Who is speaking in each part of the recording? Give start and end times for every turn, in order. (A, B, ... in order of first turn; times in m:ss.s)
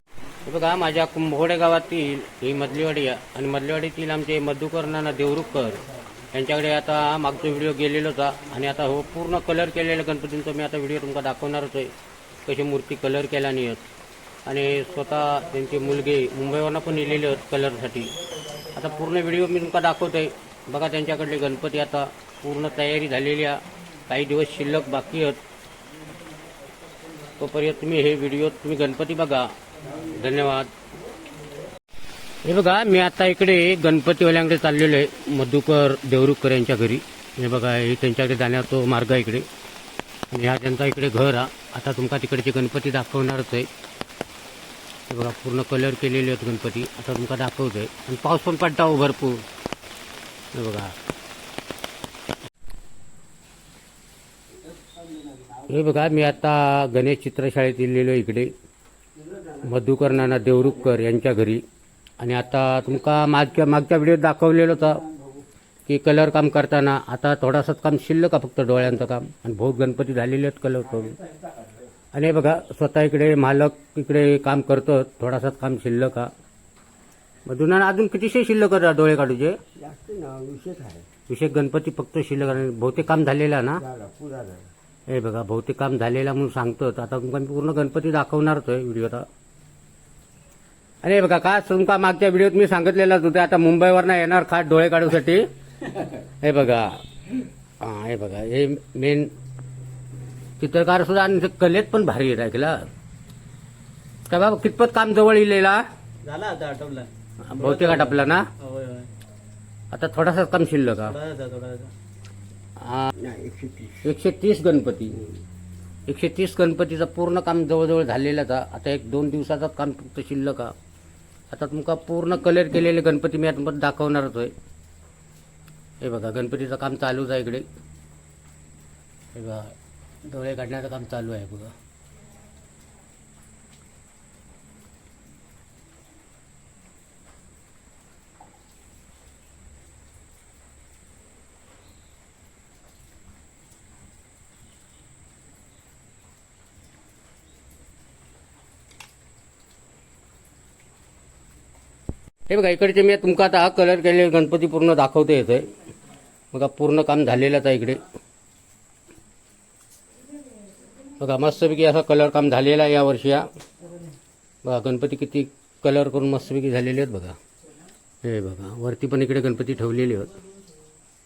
0:00.4-0:11.9 A
0:12.4-0:13.8 A
0:14.4-0:18.1 A
0:18.7-0:25.4 A
0:27.4-0:30.7 A
0:32.4-0:39.5 A
0:40.3-0:43.7 A
0:45.1-0:49.4 A
0:50.5-0:50.9 A
0:54.7-0:55.6 B
0:55.7-0:58.5 A
0:59.2-1:00.6 B
0:59.6-1:01.6 A
1:02.2-1:05.0 A
1:05.0-1:05.4 B
1:05.9-1:11.2 A
1:11.1-1:11.8 B
1:12.1-1:16.3 A
1:17.5-1:19.6 A
1:19.8-1:21.1 B
1:21.3-1:23.8 A
1:23.8-1:24.7 B
1:25.1-1:29.2 A
1:31.0-1:35.5 A
1:36.2-1:37.0 A
1:37.8-1:39.3 A
1:40.6-1:42.9 A
1:44.3-1:45.8 A
1:46.2-1:49.1 C
1:47.4-1:48.5 A
1:49.9-1:51.2 A
1:51.1-1:51.9 C
1:52.8-1:53.1 A
1:53.2-1:54.0 B
1:54.0-1:55.2 A
1:56.1-2:00.7 A
2:01.5-2:04.5 A
2:06.0-2:07.6 A
2:09.3-2:09.7 A
2:10.2-2:11.7 A
2:32.5-2:35.7 A
2:36.5-2:38.0 A
2:40.5-2:41.0 C
2:41.2-2:43.5 A
2:43.8-2:44.1 C
2:44.6-2:47.4 A
2:48.2-2:50.3 A